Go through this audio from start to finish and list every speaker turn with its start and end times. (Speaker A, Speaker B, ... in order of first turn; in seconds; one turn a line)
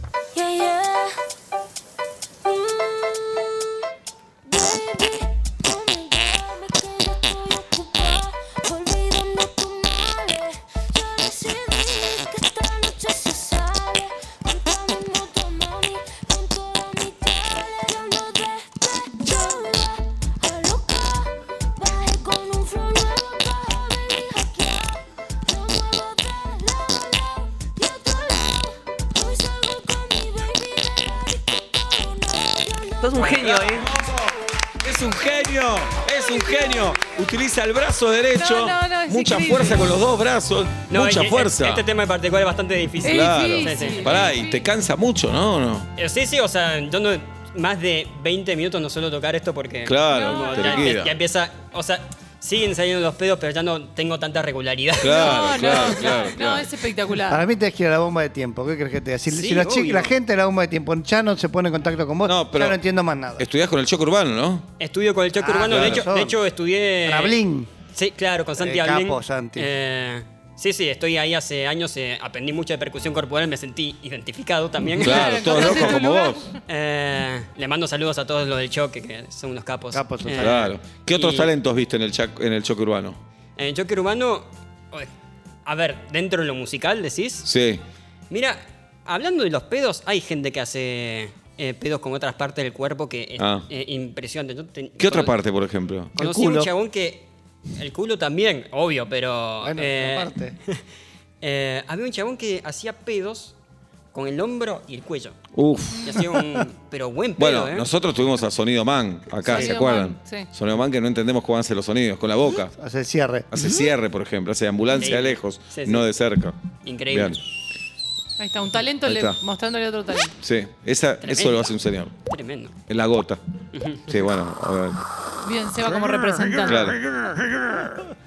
Speaker A: 0.4-1.1
Speaker A: 2.5-3.6
Speaker A: 4.5-8.4
Speaker A: 8.9-21.3
Speaker A: 22.0-24.9
Speaker A: 25.6-31.4
Speaker A: 32.0-33.9
Speaker B: 33.1-33.5
Speaker C: 33.2-34.2
Speaker C: 34.8-41.9
Speaker D: 38.4-39.9
Speaker B: 40.9-44.4
Speaker C: 43.0-45.9
Speaker D: 43.0-44.7
Speaker B: 46.0-56.3
Speaker C: 49.9-51.1
Speaker D: 50.1-50.9
Speaker C: 55.0-56.7
Speaker D: 55.0-57.4
Speaker E: 57.2-63.5
Speaker B: 59.3-60.1
Speaker C: 62.2-62.8
Speaker C: 63.4-64.7
Speaker B: 64.8-67.4
Speaker E: 65.4-66.4
Speaker C: 65.7-66.0
Speaker E: 67.0-67.7
Speaker B: 67.9-76.0
Speaker E: 68.6-69.7
Speaker C: 74.9-76.5
Speaker D: 75.0-76.6
Speaker B: 76.7-81.5
Speaker E: 79.9-80.8
Speaker C: 80.4-83.2
Speaker B: 83.6-85.1
Speaker B: 85.7-87.5
Speaker C: 87.4-87.8
Speaker B: 88.3-95.4
Speaker C: 93.4-93.7
Speaker C: 95.0-96.7
Speaker B: 96.2-100.8
Speaker E: 99.6-100.6
Speaker B: 101.4-103.5
Speaker B: 104.1-105.4
Speaker C: 105.5-106.2
Speaker D: 105.9-106.2
Speaker B: 106.0-107.9
Speaker C: 107.4-112.7
Speaker D: 109.4-110.5
Speaker E: 109.5-109.8
Speaker E: 112.8-113.9
Speaker C: 113.5-116.5
Speaker B: 115.0-116.1
Speaker B: 116.8-117.4
Speaker C: 117.1-117.4
Speaker D: 118.4-120.3
Speaker C: 119.0-119.4
Speaker C: 120.4-122.1
Speaker B: 121.2-121.8
Speaker B: 122.3-122.7
Speaker C: 122.9-123.4
Speaker B: 123.7-124.2
Speaker C: 124.1-125.0
Speaker D: 125.4-127.0
Speaker C: 125.8-128.1